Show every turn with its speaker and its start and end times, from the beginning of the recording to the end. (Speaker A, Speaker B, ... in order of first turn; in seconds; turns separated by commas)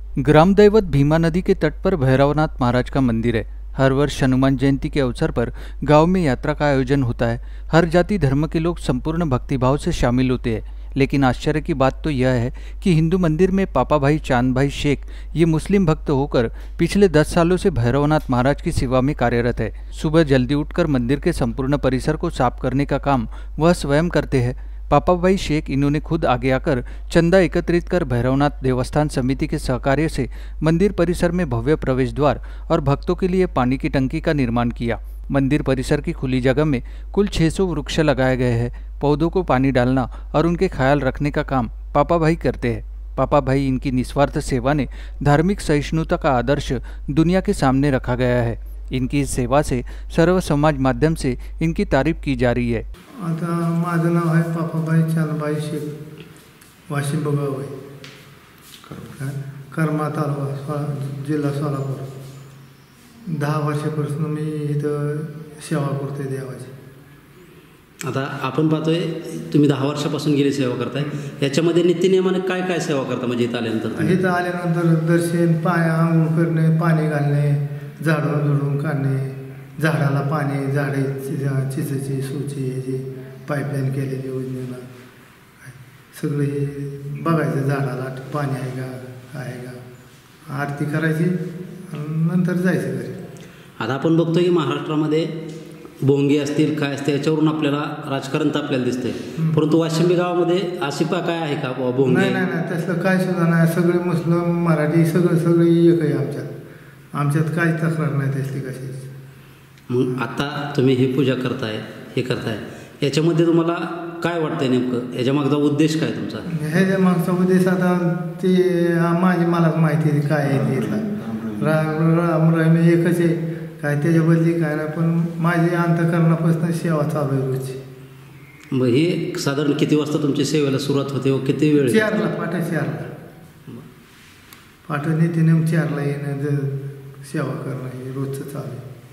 Speaker A: 0.2-52.8, Speaker B: 53.2-55.9, Speaker B: 56.9-57.7, Speaker B: 59.1-62.1, Speaker B: 63.3-66.7, Speaker C: 68.0-74.2, Speaker B: 74.0-84.8, Speaker B: 85.6-89.8, Speaker B: 90.5-91.4, Speaker B: 91.9-93.2, Speaker C: 93.8-95.3, Speaker C: 96.0-102.4, Speaker B: 102.0-106.5, Speaker B: 107.1-109.1, Speaker C: 109.9-116.5, Speaker B: 116.5-127.8, Speaker C: 128.7-132.2, Speaker B: 131.8-133.1, Speaker B: 134.9-138.8